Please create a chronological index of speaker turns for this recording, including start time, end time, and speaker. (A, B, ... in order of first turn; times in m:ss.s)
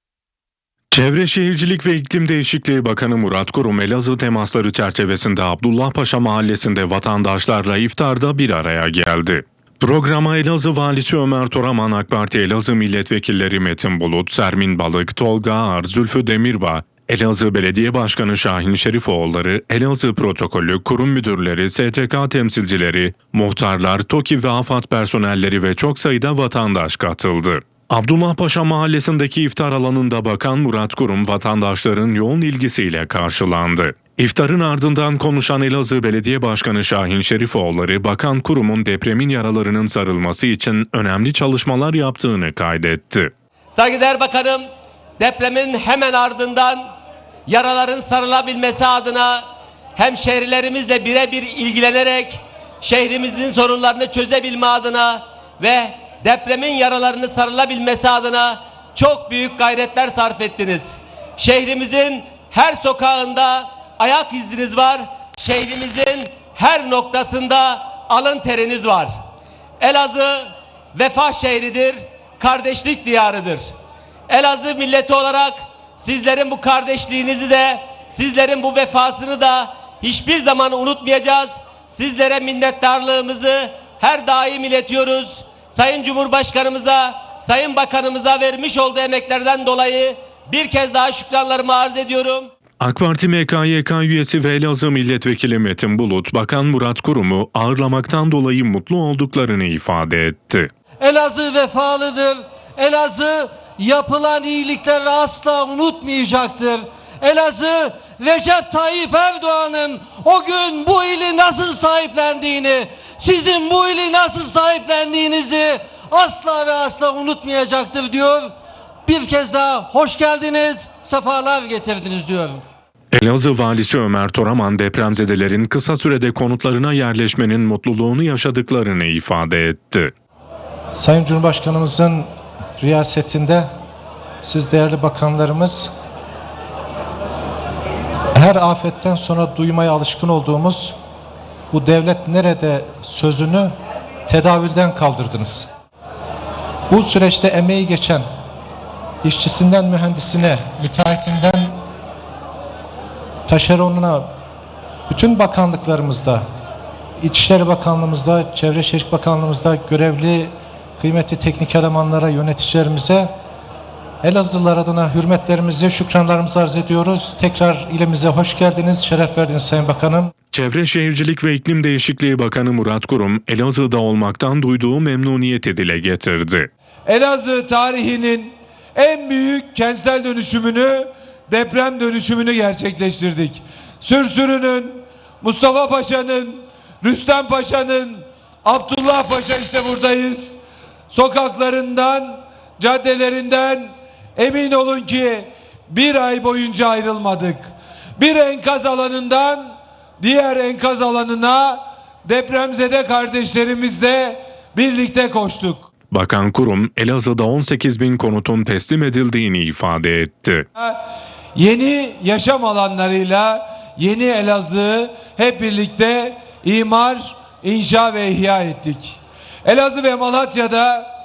0:00.9-0:43.3 A
0:43.7-0:44.6 B
0:45.2-0:46.8 B
0:47.5-0:49.4 B
0:50.0-1:09.1 B
1:09.8-1:13.6 B
1:14.3-1:32.4 B
1:32.8-1:40.7 A
1:41.0-1:58.5 C
1:59.0-2:02.6 C
2:03.1-2:10.1 A
2:11.0-2:12.3 D
2:12.8-2:13.7 D
2:14.4-2:15.9 D
2:18.4-2:21.0 D
2:21.7-2:23.8 D
2:24.3-2:25.7 D
2:26.9-2:28.3 D
2:29.2-2:31.8 D
2:33.5-2:34.3 D
2:35.1-2:36.4 D
2:37.2-2:43.3 D
2:44.2-2:50.3 D
2:50.5-2:56.7 A
2:57.1-3:25.9 E
3:26.1-3:30.6 A
3:31.6-3:41.1 E